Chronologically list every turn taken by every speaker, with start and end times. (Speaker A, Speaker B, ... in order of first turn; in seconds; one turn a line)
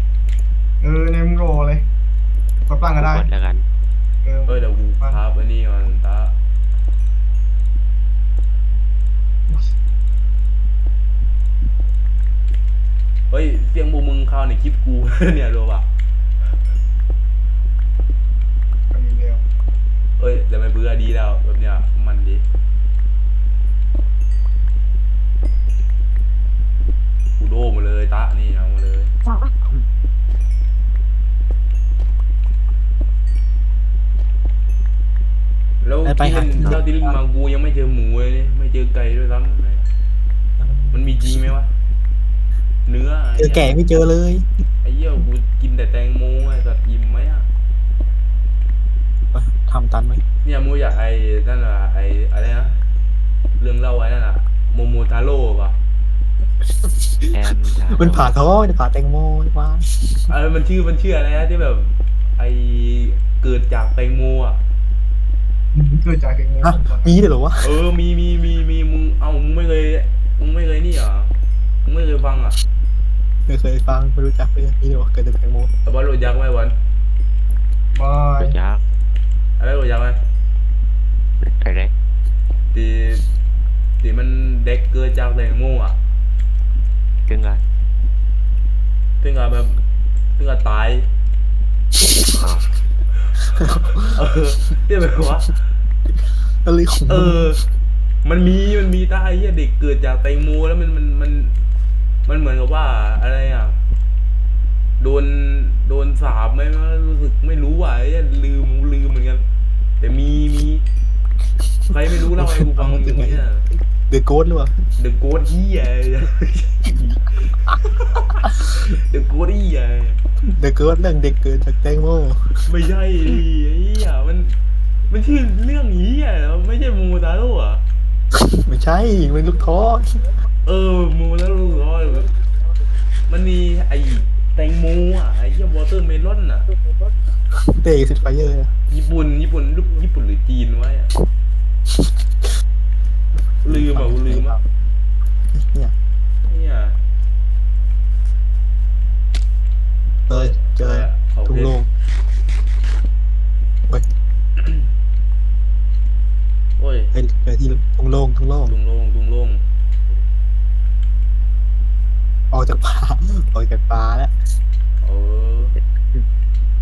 Speaker A: 0.8-1.9
Speaker A: 2.7-3.3
Speaker B: 3.0-3.7
Speaker A: 4.2-5.2
Speaker C: 4.5-6.3
Speaker C: 13.3-15.9
Speaker A: 18.9-19.4
Speaker C: 20.2-22.4
Speaker C: 27.4-29.1
Speaker C: 35.8-39.9
Speaker D: 36.0-37.1
Speaker D: 40.6-41.4
Speaker C: 40.9-41.7
Speaker C: 42.9-43.8
Speaker D: 43.4-44.5
Speaker C: 44.8-47.5
Speaker D: 49.3-50.2
Speaker C: 50.4-52.8
Speaker C: 53.6-55.8
Speaker D: 56.8-57.3
Speaker B: 57.3-58.3
Speaker D: 57.9-60.3
Speaker C: 60.3-64.6
Speaker A: 65.7-67.2
Speaker D: 66.6-67.8
Speaker C: 67.6-71.3
Speaker C: 71.8-72.6
Speaker D: 73.5-75.7
Speaker C: 75.8-76.8
Speaker A: 77.9-78.6
Speaker B: 78.4-78.8
Speaker C: 79.6-80.2
Speaker B: 81.4-81.9
Speaker C: 82.7-83.3
Speaker C: 84.0-86.0
Speaker B: 87.3-87.6
Speaker C: 89.2-89.8
Speaker C: 90.4-91.1
Speaker B: 92.4-92.7
Speaker C: 93.4-95.6
Speaker D: 96.6-97.6
Speaker C: 97.1-97.6
Speaker C: 98.2-101.6
Speaker C: 102.3-103.8
Speaker C: 105.0-109.4
Speaker C: 110.0-110.8
Speaker C: 111.9-113.7
Speaker D: 111.9-113.5
Speaker D: 114.1-114.8
Speaker C: 115.0-120.2
Speaker D: 120.4-122.7
Speaker C: 122.7-124.5
Speaker C: 125.1-127.8
Speaker D: 128.3-130.3
Speaker C: 130.7-132.3
Speaker C: 133.3-136.7
Speaker D: 137.5-138.7
Speaker C: 138.9-141.1
Speaker C: 143.6-144.6
Speaker D: 143.7-144.6
Speaker D: 145.5-145.9
Speaker C: 146.5-147.0
Speaker C: 150.3-151.8
Speaker D: 150.3-151.9
Speaker C: 156.8-157.1
Speaker D: 157.1-158.8
Speaker C: 158.7-159.6
Speaker D: 162.5-164.3
Speaker C: 165.0-165.8